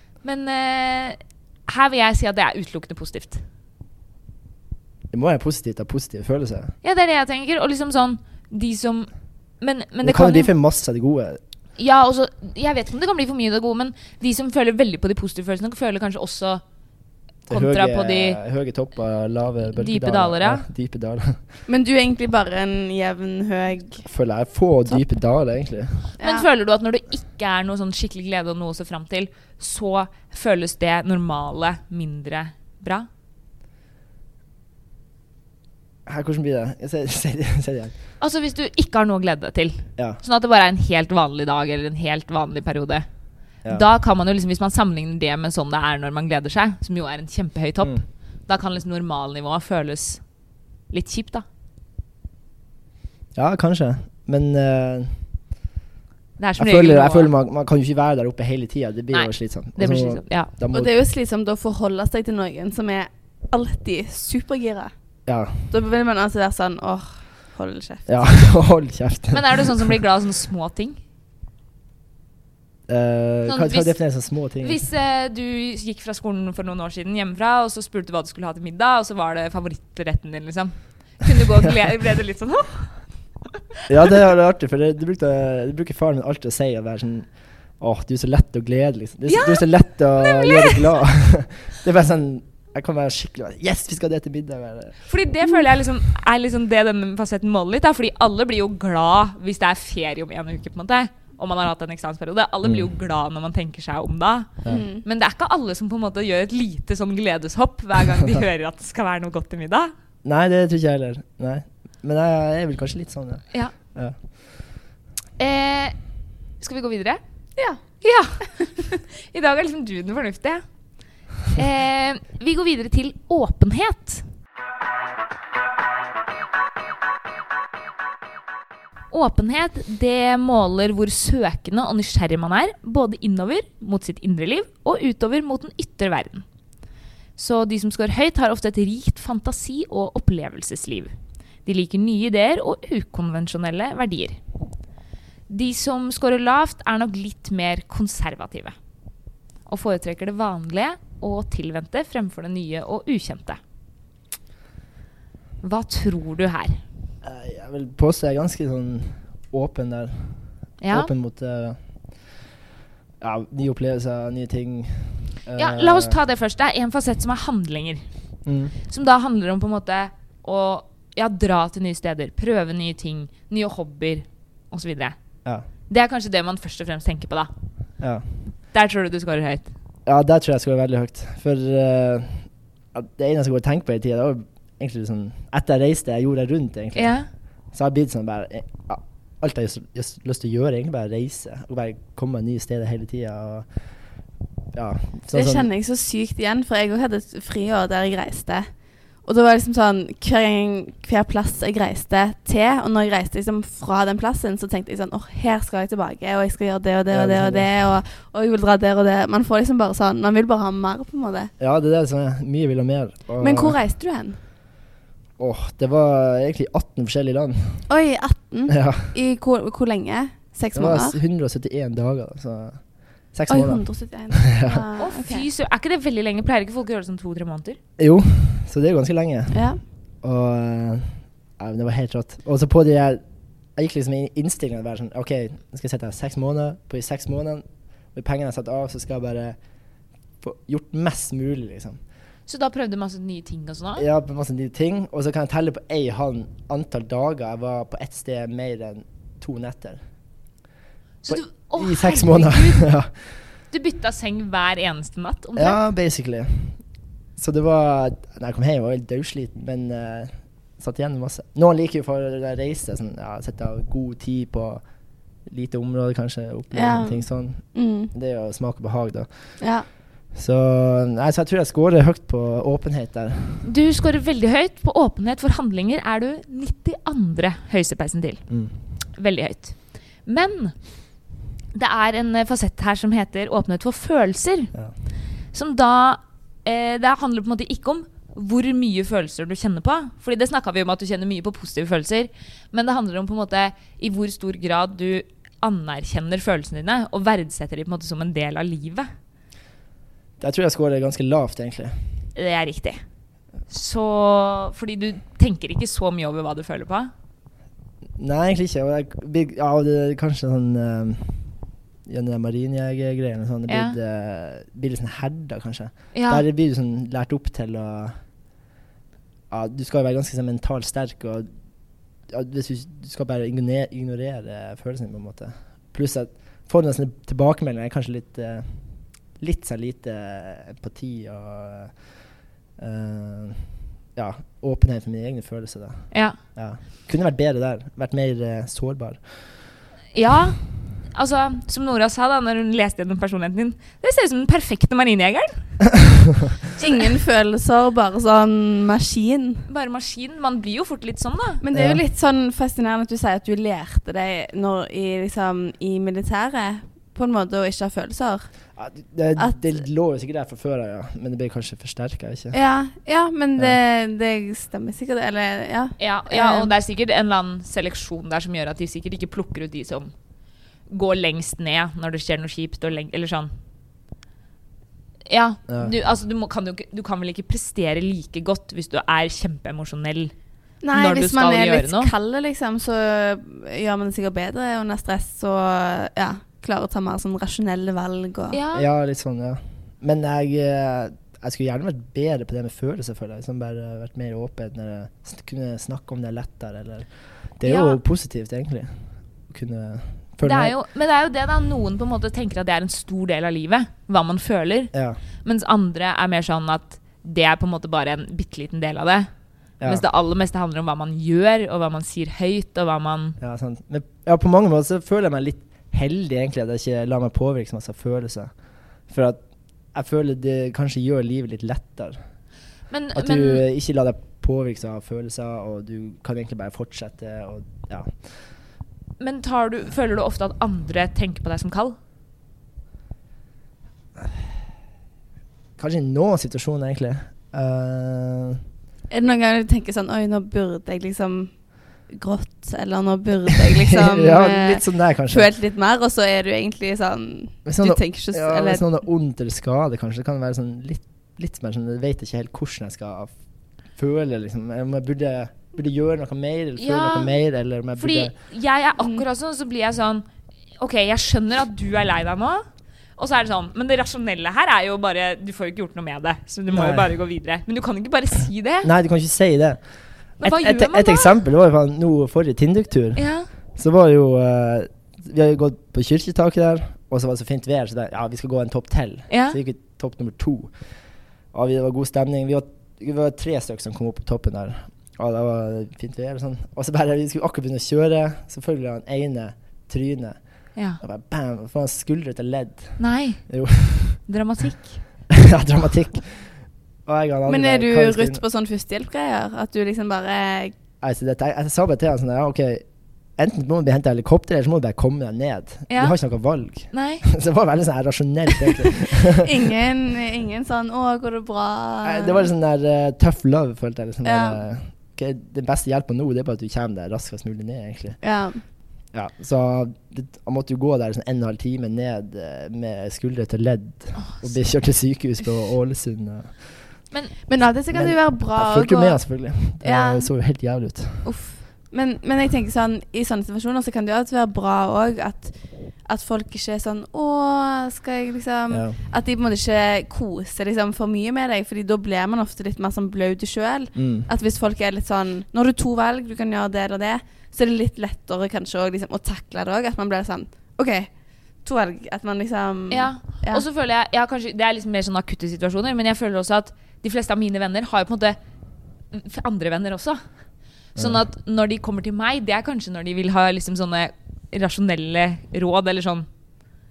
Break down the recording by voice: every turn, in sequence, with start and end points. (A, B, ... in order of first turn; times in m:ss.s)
0:00.2-0:03.4 A
0:05.1-0:06.7 B
0:06.8-0:10.5 A
0:10.0-0:11.4 B
0:11.8-0:16.6 A
0:17.5-0:21.4 B
0:17.5-0:18.4 A
0:19.7-0:20.7 A
0:21.7-0:24.1 C
0:24.1-0:26.1 B
0:26.2-0:26.5 C
0:26.2-0:33.1 A
0:36.1-0:37.9 B
0:38.2-0:43.1 A
0:43.6-0:50.2 A
0:50.9-0:51.4 A
0:53.4-0:55.2 B
0:56.4-0:57.3 A
0:56.6-1:00.9 B
0:59.1-1:00.5 A
1:00.7-1:04.9 C
1:05.3-1:05.7 B
1:05.7-1:08.5 C
1:08.1-1:09.8 B
1:09.3-1:11.0 A
1:12.9-1:14.8 B
1:13.5-1:14.0 A
1:14.6-1:23.1 A
1:23.9-1:35.1 B
1:29.3-1:30.9 A
1:35.1-1:49.9 A
1:42.6-1:42.9 B
1:44.7-1:45.0 C
1:50.2-1:54.2 B
1:55.4-1:56.0 A
1:56.6-1:57.2 A
1:58.0-2:00.6 A
2:01.5-2:04.2 A
2:09.1-2:16.4 A
2:17.4-2:21.1 A
2:21.6-2:24.4 A
2:25.5-2:28.8 A
2:29.7-2:33.6 A
2:35.6-2:36.8 A
2:37.2-2:42.3 B
2:40.8-2:41.1 A
2:43.2-2:46.2 B
2:45.6-2:48.1 A
2:48.4-2:48.8 B
2:48.9-2:55.2 A
2:55.9-2:57.5 A
2:58.0-2:58.2 B
2:58.7-2:59.7 A
3:00.1-3:13.8 B
3:07.0-3:07.3 A
3:14.7-3:15.7 B
3:15.3-3:31.5 C
3:27.1-3:27.7 B
3:31.6-3:33.8 B
3:33.4-3:34.4 C
3:35.4-3:37.9 B
3:37.9-3:41.2 C
3:38.7-3:39.1 B
3:40.7-3:44.8 B
3:43.5-3:45.5 C
3:45.0-3:47.8 A
3:48.0-3:49.6 B
3:49.5-3:49.8 C
3:50.2-3:53.2 B
3:53.8-3:59.6 B
4:00.4-4:02.0 B
4:02.5-4:04.0 A
4:04.0-4:10.0 B
4:11.2-4:12.9 A
4:11.3-4:13.4 B
4:13.7-4:15.8 A
4:15.6-4:16.8 B
4:17.4-4:24.8 B
4:25.5-4:29.7 B
4:26.7-4:28.1 C
4:29.6-4:29.8 C
4:30.3-4:33.7 B
4:33.6-4:38.5 A
4:39.1-4:40.8 A
4:41.7-4:44.7 A
4:45.5-4:59.1 A
5:00.4-5:02.0 B
5:02.4-5:03.0 A
5:03.7-5:07.1 A
5:08.2-5:11.6 B
5:12.1-5:18.2 B
5:13.7-5:14.0 A
5:16.1-5:16.4 A
5:19.5-5:21.5 B
5:22.3-5:28.8 B
5:29.4-5:32.1 B
5:32.8-5:39.6 B
5:36.1-5:36.4 A
5:40.1-5:45.8 A
5:46.8-5:49.7 C
5:49.7-5:51.6 A
5:51.6-5:58.5 C
5:51.7-5:52.0 B
5:58.8-6:02.6 B
5:59.4-5:59.7 C
6:02.5-6:06.7 C
6:06.0-6:10.1 A
6:10.9-6:13.5 A
6:15.3-6:20.3 A
6:15.7-6:15.9 B
6:20.8-6:28.6 C
6:20.9-6:22.1 A
6:28.5-6:28.9 A
6:28.7-6:40.8 B
6:37.6-6:38.0 A
6:40.4-6:44.9 A
6:44.9-6:45.2 B
6:45.4-6:49.3 A
6:49.8-6:53.4 A
6:53.4-6:58.5 B
6:59.1-7:02.2 B
7:02.9-7:03.6 A
7:03.1-7:08.4 B
7:09.2-7:12.0 A
7:15.8-7:18.6 B
7:19.1-7:28.8 C
7:23.9-7:25.5 B
7:27.7-7:33.3 B
7:33.9-7:38.4 B
7:36.8-7:37.3 A
7:38.0-7:40.2 A
7:40.8-7:42.6 A
7:43.2-7:48.9 A
7:46.7-7:47.1 B
7:48.8-7:53.2 B
7:50.4-7:51.4 A
7:53.2-7:53.5 A
7:53.8-8:00.9 B
7:59.3-7:59.6 A
8:01.5-8:14.2 B
8:10.8-8:11.0 A
8:13.0-8:15.0 A
8:15.3-8:18.4 B
8:17.5-8:20.7 C
8:21.0-8:29.4 B
8:25.9-8:26.2 A
8:26.9-8:27.2 A
8:29.4-8:32.5 C
8:32.0-8:38.2 B
8:34.2-8:34.6 C
8:38.2-8:38.6 C
8:39.1-8:47.0 B
8:44.2-8:44.5 A
8:47.5-8:50.3 C
8:47.9-8:51.3 B
8:51.2-9:13.6 C
8:58.7-8:59.0 B
9:04.0-9:04.3 B
9:12.9-9:18.4 A
9:19.1-9:20.2 A
9:20.9-9:26.3 A